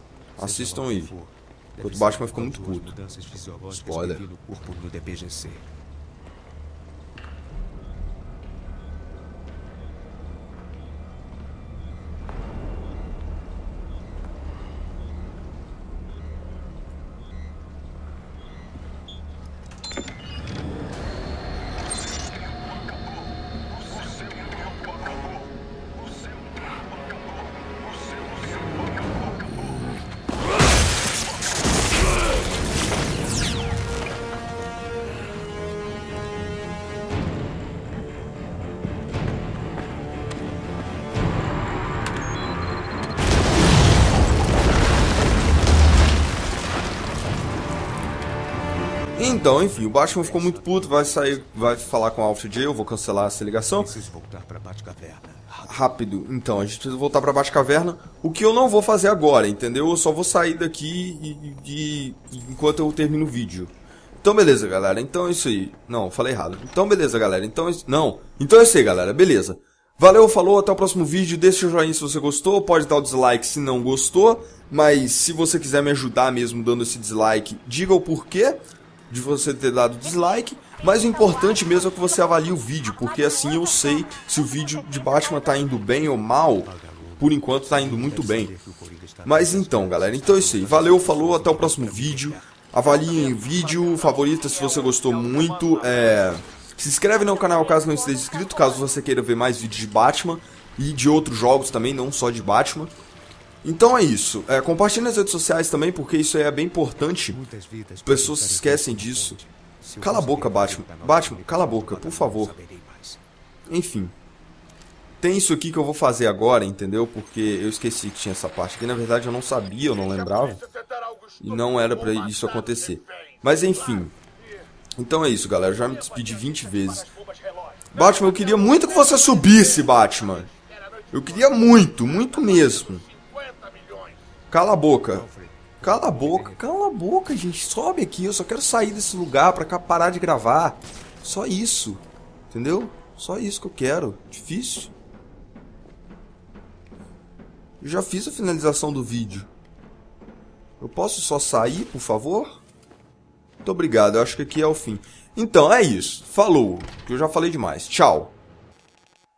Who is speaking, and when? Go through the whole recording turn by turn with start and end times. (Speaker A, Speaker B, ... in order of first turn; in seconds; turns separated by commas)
Speaker A: 0.4-1.1, Speaker B: 0.4-5.7, Speaker A: 1.8-2.9, Speaker A: 3.7-4.2, Speaker A: 49.2-53.9, Speaker B: 49.2-51.9, Speaker B: 53.6-55.8, Speaker A: 55.7-88.5, Speaker B: 86.6-92.5, Speaker A: 89.2-102.9, Speaker A: 103.6-107.4, Speaker B: 107.3-113.2, Speaker A: 108.0-109.4, Speaker A: 110.0-112.5, Speaker A: 113.7-114.1, Speaker A: 115.2-120.7, Speaker A: 121.4-124.1, Speaker A: 125.0-127.1, Speaker A: 127.9-130.5, Speaker A: 131.1-133.1, Speaker A: 134.5-135.3, Speaker B: 135.1-136.7, Speaker A: 135.8-144.9, Speaker A: 147.8-149.5, Speaker A: 150.8-152.6, Speaker A: 153.6-158.4